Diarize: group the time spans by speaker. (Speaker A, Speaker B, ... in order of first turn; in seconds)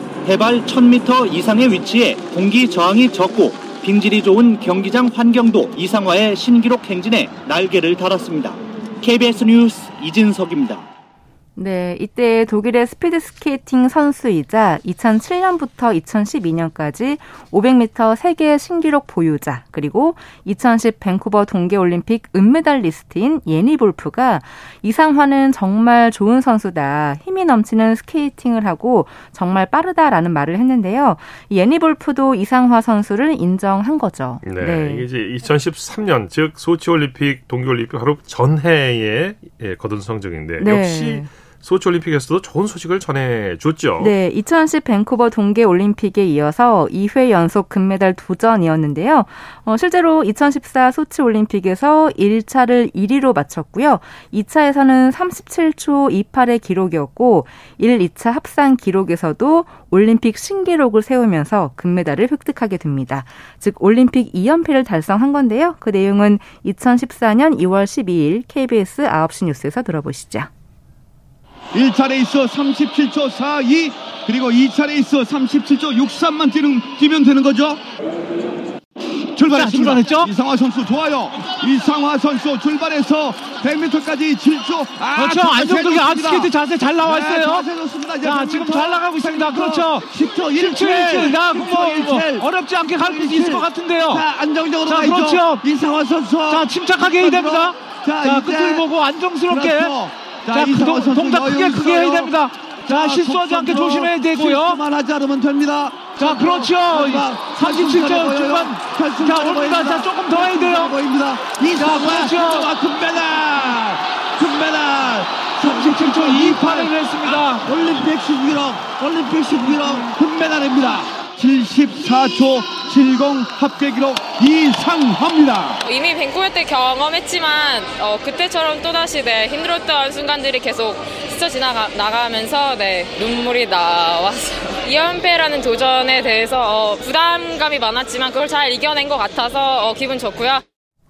Speaker A: 0.2-10.8
Speaker B: 11.6-35.1, 40.6-41.3, 44.0-70.5
Speaker C: 34.4-44.1
Speaker D: 71.7-77.8, 79.3-98.9, 99.4-125.8
Speaker E: 79.5-80.3, 85.2-87.7, 88.2-94.2, 94.8-95.6, 96.5-99.9, 100.5-104.8, 106.2-110.9, 111.8-112.7, 115.7-117.6
Speaker F: 125.8-140.6